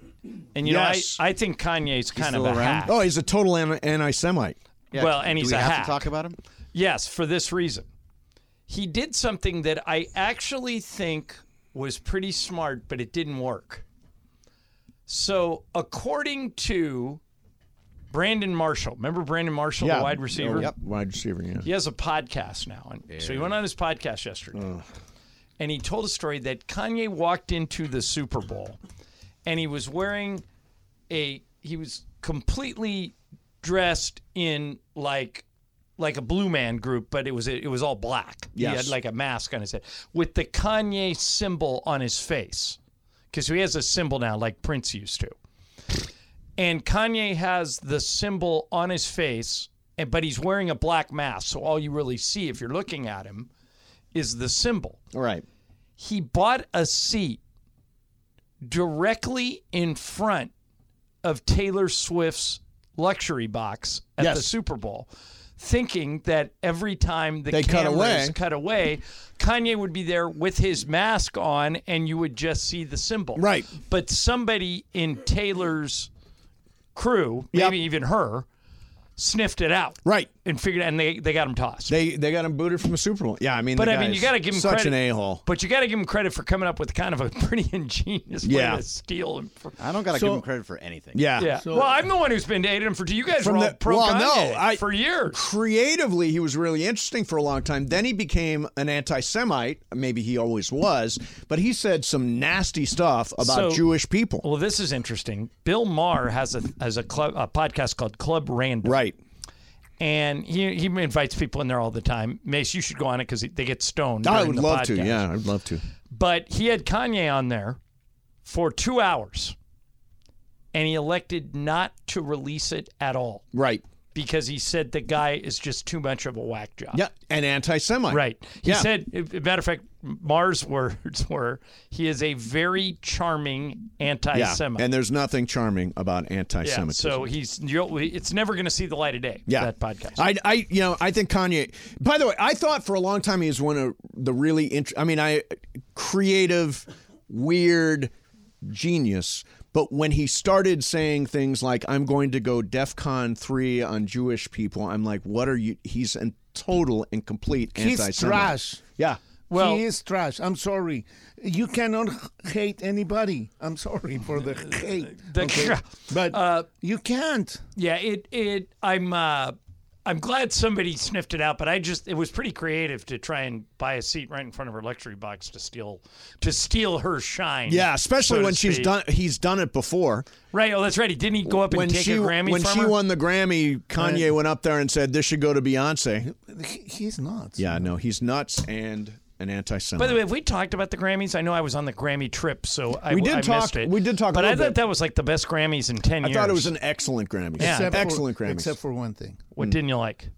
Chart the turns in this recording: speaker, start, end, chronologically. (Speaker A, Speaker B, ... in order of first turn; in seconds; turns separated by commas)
Speaker A: 0.5-2.9, Speaker B: 0.6-1.2, Speaker C: 2.1-2.9, Speaker B: 2.8-4.5, Speaker C: 4.9-6.3, Speaker A: 4.9-6.1, Speaker A: 6.7-7.9, Speaker A: 8.7-13.8, Speaker A: 15.1-17.2, Speaker A: 18.1-20.7, Speaker B: 19.8-21.7, Speaker A: 21.6-24.7, Speaker C: 23.1-23.5, Speaker B: 24.5-24.8, Speaker A: 25.6-28.8, Speaker A: 29.4-30.4, Speaker A: 31.1-35.4, Speaker A: 36.0-42.8, Speaker B: 38.5-38.9, Speaker A: 43.3-45.4, Speaker A: 46.6-53.5, Speaker A: 54.1-55.0, Speaker B: 55.1-55.4, Speaker A: 56.0-57.4, Speaker A: 58.6-60.5, Speaker A: 61.2-76.1, Speaker B: 64.2-64.5, Speaker B: 67.5-68.3, Speaker B: 73.3-73.7, Speaker A: 76.9-78.5, Speaker B: 77.5-77.8, Speaker A: 79.2-81.9, Speaker B: 80.0-80.3, Speaker B: 81.9-85.4, Speaker A: 83.7-89.8, Speaker B: 88.4-88.8, Speaker C: 89.8-91.2, Speaker D: 90.1-90.4, Speaker B: 91.1-91.5, Speaker A: 91.4-95.5, Speaker D: 91.5-92.0, Speaker B: 93.4-104.4, Speaker A: 103.4-103.8, Speaker A: 104.4-109.0, Speaker B: 108.8-109.2, Speaker A: 110.0-115.2, Speaker B: 114.2-115.8, Speaker A: 116.1-117.8, Speaker A: 118.4-119.5, Speaker A: 120.7-123.4, Speaker B: 123.5-123.8, Speaker A: 124.1-127.0, Speaker B: 126.9-128.9, Speaker A: 128.1-134.8, Speaker B: 134.3-137.3, Speaker A: 136.6-140.2, Speaker B: 139.5-148.1, Speaker B: 148.6-159.2, Speaker D: 157.7-158.8, Speaker A: 159.5-159.8, Speaker D: 159.5-167.6, Speaker A: 165.2-166.7, Speaker A: 167.8-178.9, Speaker B: 177.7-180.3, Speaker A: 180.5-183.0, Speaker B: 181.5-186.3, Speaker D: 184.0-184.3, Speaker D: 186.2-187.9, Speaker B: 187.6-190.2, Speaker A: 190.0-196.7, Speaker B: 193.1-194.8, Speaker B: 196.2-198.7, Speaker D: 197.6-199.5, Speaker A: 197.6-198.1, Speaker A: 199.6-200.3